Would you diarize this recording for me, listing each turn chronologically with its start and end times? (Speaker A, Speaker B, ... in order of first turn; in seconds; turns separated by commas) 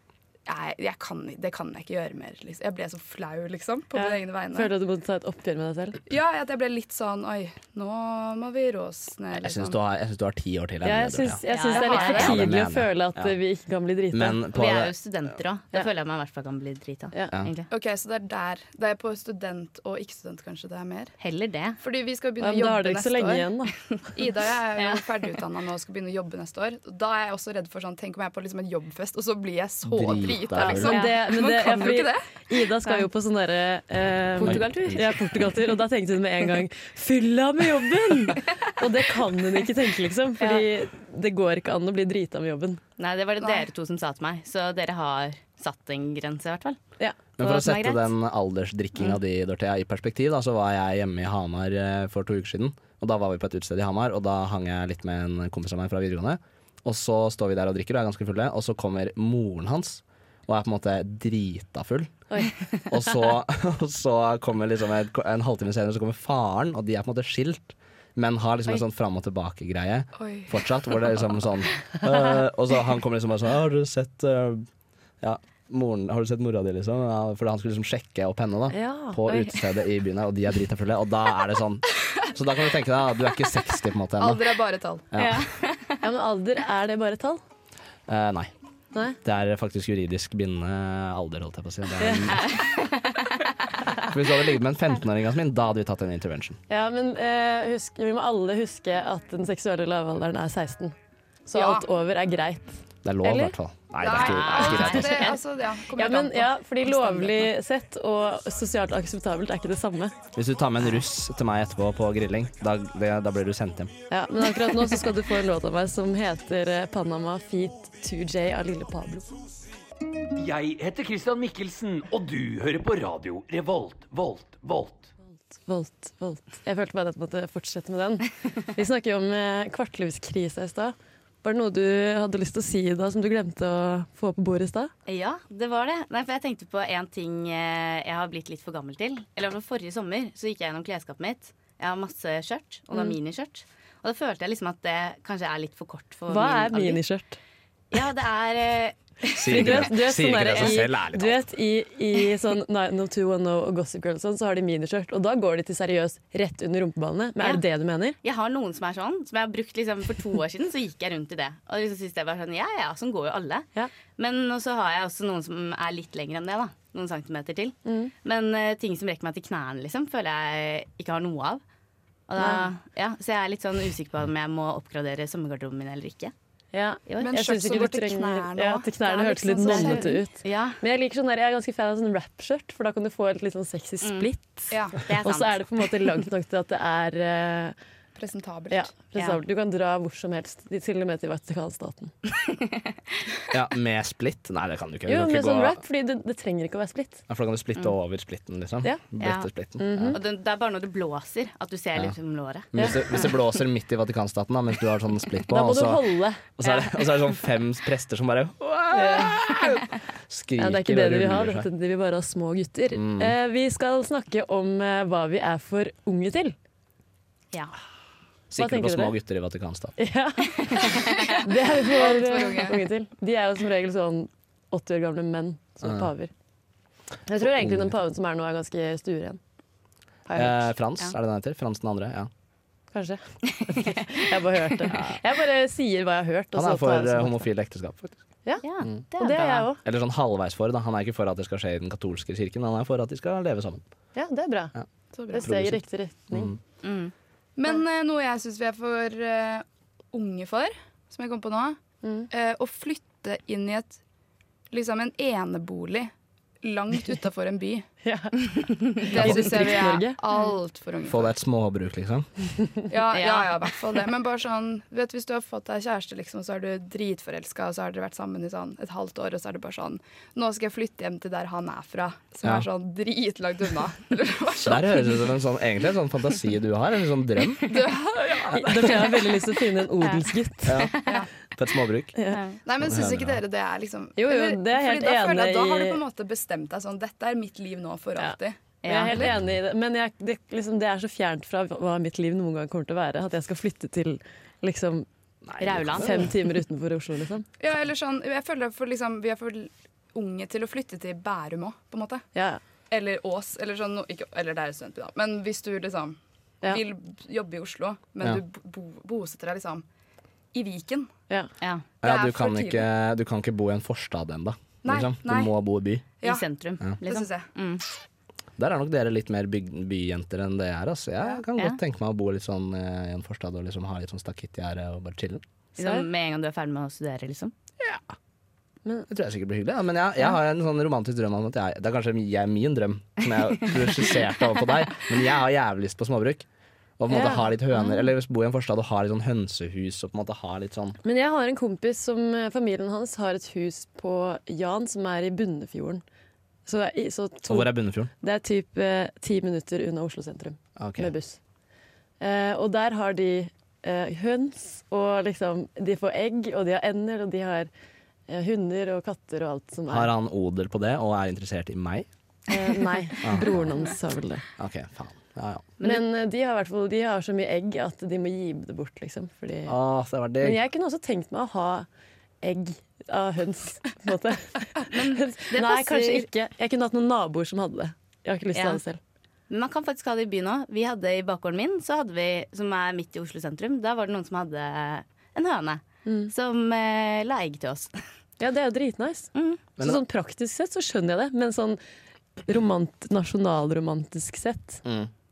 Speaker A: 0.5-4.7, Speaker B: 4.0-6.0, Speaker A: 6.1-9.8, Speaker C: 9.4-11.4, Speaker B: 10.8-14.4, Speaker D: 11.5-12.4, Speaker A: 11.7-12.3, Speaker C: 12.1-13.3, Speaker C: 14.1-14.9, Speaker D: 14.5-17.7, Speaker A: 17.7-21.1, Speaker D: 21.2-21.8, Speaker A: 21.8-23.5, Speaker B: 22.4-23.8, Speaker A: 24.1-32.3, Speaker D: 24.8-25.2, Speaker C: 29.9-31.0, Speaker B: 30.6-42.8, Speaker D: 30.9-31.1, Speaker D: 34.4-35.2, Speaker C: 34.4-35.1, Speaker D: 40.4-40.7, Speaker D: 43.0-46.8, Speaker A: 43.4-43.7, Speaker C: 47.4-62.1, Speaker D: 47.4-48.1, Speaker B: 62.3-62.5, Speaker C: 62.9-74.7, Speaker A: 70.2-70.6, Speaker C: 75.2-84.6, Speaker B: 78.7-79.5, Speaker A: 84.2-85.1, Speaker C: 85.1-85.5, Speaker D: 85.2-86.0, Speaker B: 86.0-87.4, Speaker C: 88.1-88.5, Speaker C: 89.2-92.6, Speaker B: 92.0-92.3, Speaker D: 92.3-93.5, Speaker C: 94.0-96.6, Speaker B: 96.7-101.0, Speaker B: 101.5-103.5, Speaker A: 101.5-101.9, Speaker C: 103.0-105.3, Speaker A: 104.0-107.5, Speaker D: 104.0-105.4, Speaker B: 106.0-110.2, Speaker C: 110.3-113.9, Speaker B: 114.1-119.3, Speaker E: 120.4-125.1, Speaker B: 125.5-134.9, Speaker D: 135.1-147.0, Speaker B: 146.3-147.4, Speaker D: 147.9-149.9, Speaker C: 149.3-151.4, Speaker B: 149.5-158.2, Speaker D: 158.2-171.6, Speaker B: 167.9-168.1, Speaker D: 172.3-176.3, Speaker B: 172.4-172.7, Speaker B: 176.7-187.8, Speaker D: 177.1-177.3, Speaker A: 177.2-180.2, Speaker D: 179.6-180.8, Speaker D: 184.0-184.3, Speaker A: 184.7-185.0, Speaker D: 185.0-186.1, Speaker A: 188.2-188.9, Speaker B: 188.7-192.1, Speaker D: 189.2-189.4, Speaker D: 192.5-192.9, Speaker C: 193.5-195.8, Speaker B: 195.1-197.2, Speaker C: 197.3-200.2, Speaker D: 199.2-199.5, Speaker B: 199.8-200.2, Speaker D: 200.1-203.4, Speaker C: 202.7-211.7, Speaker B: 205.5-206.4, Speaker D: 206.6-207.0, Speaker B: 208.9-209.4, Speaker B: 210.6-216.6, Speaker C: 212.9-213.3, Speaker C: 218.5-220.0, Speaker B: 218.6-219.2, Speaker B: 220.0-226.3, Speaker D: 220.8-221.3, Speaker A: 221.2-222.8, Speaker C: 225.8-226.1, Speaker B: 227.3-229.4, Speaker C: 227.4-227.9, Speaker B: 230.3-230.7, Speaker C: 230.3-232.3, Speaker B: 232.9-237.5, Speaker C: 234.9-235.2, Speaker C: 236.6-238.2, Speaker D: 238.6-239.7, Speaker B: 239.2-239.8, Speaker C: 239.8-243.8, Speaker B: 244.2-244.7, Speaker A: 245.2-245.5, Speaker B: 245.3-246.5, Speaker C: 245.4-245.8, Speaker C: 246.3-246.6, Speaker D: 246.8-247.1, Speaker A: 247.6-251.8, Speaker B: 252.0-252.3, Speaker A: 252.3-254.0, Speaker A: 254.7-257.9, Speaker B: 258.0-260.2, Speaker A: 259.0-261.3, Speaker C: 261.1-262.3, Speaker A: 262.9-275.1, Speaker D: 263.1-264.0, Speaker C: 274.6-277.9, Speaker A: 277.6-279.4, Speaker B: 278.5-280.9, Speaker C: 280.7-281.0, Speaker D: 280.8-281.2, Speaker C: 281.6-282.1, Speaker B: 282.2-282.4, Speaker D: 282.3-282.6, Speaker A: 282.6-288.6, Speaker C: 282.8-283.4, Speaker B: 284.2-286.0, Speaker B: 288.2-295.1, Speaker D: 288.8-289.2, Speaker C: 289.1-289.6, Speaker C: 295.4-296.3, Speaker D: 295.6-296.3, Speaker B: 296.0-297.5, Speaker A: 297.6-302.3, Speaker B: 302.4-302.6, Speaker A: 302.9-309.9, Speaker A: 310.5-311.1, Speaker D: 311.6-311.9, Speaker A: 312.0-312.9, Speaker C: 312.0-316.1, Speaker A: 314.8-315.5, Speaker D: 316.2-317.8, Speaker A: 317.0-317.5, Speaker C: 318.6-325.4, Speaker D: 325.8-327.5, Speaker B: 325.8-326.1, Speaker C: 327.8-328.1, Speaker C: 329.1-336.5, Speaker C: 337.0-341.0, Speaker B: 337.1-338.0, Speaker B: 341.0-346.0, Speaker B: 346.7-351.4, Speaker C: 347.5-348.1, Speaker C: 350.8-351.1, Speaker B: 352.2-357.7, Speaker B: 358.3-360.1, Speaker C: 359.9-362.1, Speaker B: 362.5-364.4, Speaker C: 363.2-363.7, Speaker C: 364.6-365.7, Speaker B: 365.8-369.8, Speaker C: 369.7-370.6, Speaker B: 370.4-371.9, Speaker B: 372.4-379.0, Speaker D: 374.9-376.3, Speaker D: 378.6-378.8, Speaker D: 379.5-388.0, Speaker B: 386.1-386.3, Speaker B: 388.4-391.8, Speaker D: 389.4-389.6, Speaker B: 392.5-394.8, Speaker C: 394.8-395.1